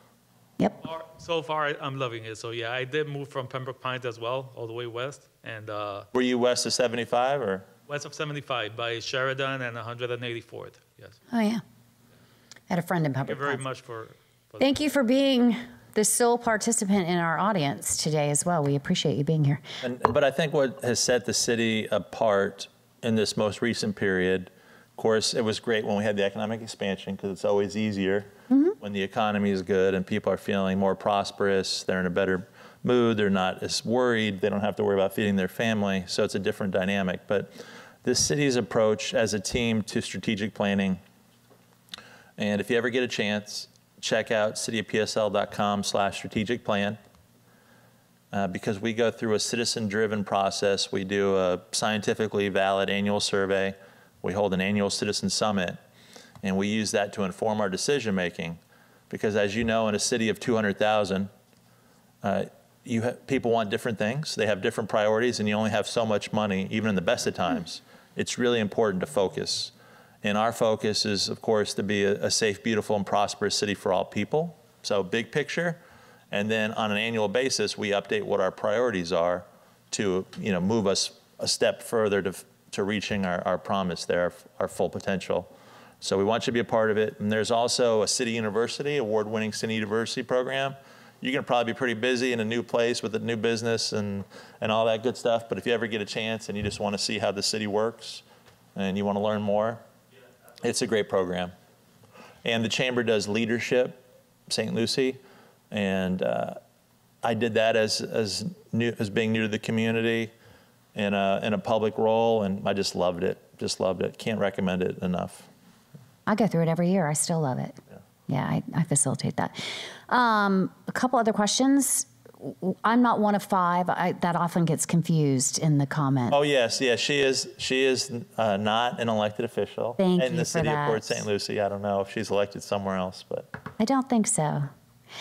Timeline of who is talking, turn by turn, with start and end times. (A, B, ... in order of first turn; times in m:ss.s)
0:00.8-0:06.1 A
0:06.1-0:07.7 B
0:07.9-0:11.2 A
0:11.3-0:11.6 C
0:12.7-0:13.6 C
0:13.3-0:14.7 A
0:14.6-0:19.6 C
0:19.8-0:41.0 B
0:28.5-0:28.8 C
0:42.4-0:47.0 B
0:48.3-0:55.8 B
0:56.4-1:01.3 B
1:02.2-1:38.2 B
1:38.8-1:39.8 B
1:40.6-1:41.5 B
1:42.4-1:45.2 B
1:45.7-1:46.6 B
1:47.2-1:50.3 B
1:51.0-1:55.5 B
1:56.3-2:06.4 C
2:06.3-2:13.5 B
2:10.0-2:11.2 C
2:13.8-2:14.7 C